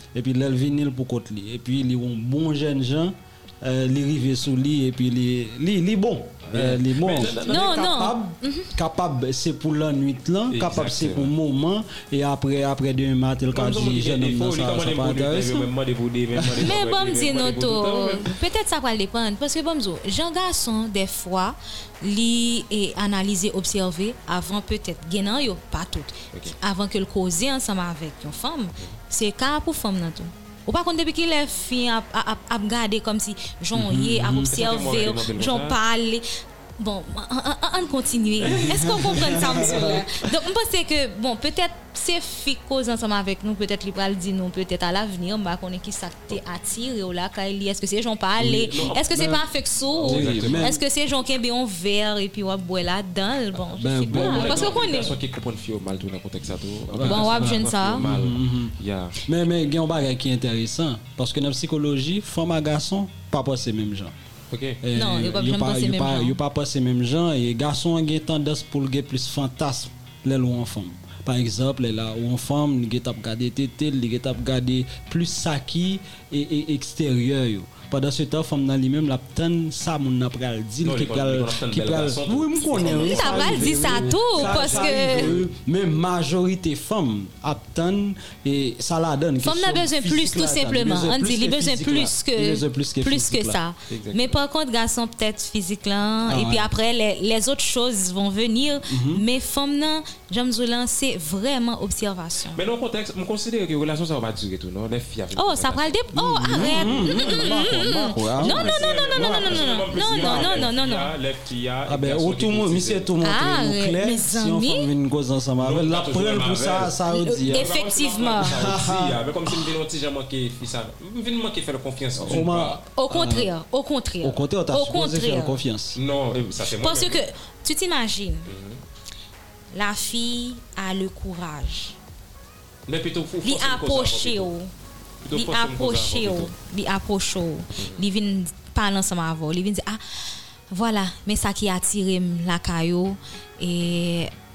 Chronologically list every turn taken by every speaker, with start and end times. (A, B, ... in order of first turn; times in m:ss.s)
0:00.1-0:15.7 A
0:06.5-0:07.9 B
0:07.4-0:08.7 C
0:10.5-0:11.3 B
0:13.5-0:18.4 B
0:16.3-0:16.7 A
0:16.6-0:36.2 C
0:33.7-0:34.6 A
0:34.5-0:35.8 B
0:36.8-0:55.2 C
0:38.4-0:40.0 B
0:38.4-0:40.2 A
0:48.4-0:49.4 A
0:48.7-0:49.1 B
0:49.9-0:50.8 B
0:50.0-0:50.8 A
0:53.7-0:54.7 A
0:54.1-0:59.2 B
0:56.9-1:04.1 A
0:57.0-0:58.1 C
1:04.5-1:04.8 B
1:04.8-1:33.6 A
1:04.9-1:06.4 C
1:20.8-1:25.5 B
1:23.0-1:25.3 C
1:29.4-1:42.6 C
1:33.9-1:34.4 B
1:36.2-1:36.7 A
1:38.9-1:39.2 A
1:42.5-1:53.1 B
1:45.3-1:51.1 C
1:46.1-1:50.7 A
1:51.8-1:57.7 A
1:53.2-1:54.9 C
1:55.6-2:02.8 B
1:57.1-1:58.6 C
1:58.4-1:59.2 A
2:02.2-2:03.5 A
2:03.0-2:05.6 C
2:04.2-2:06.0 A
2:05.9-2:07.2 B
2:06.6-2:08.5 C
2:08.5-2:08.8 B
2:09.7-2:12.0 C
2:12.9-2:14.5 B
2:13.4-2:14.7 C
2:15.2-2:16.5 B
2:15.3-2:24.3 C
2:17.8-2:18.0 B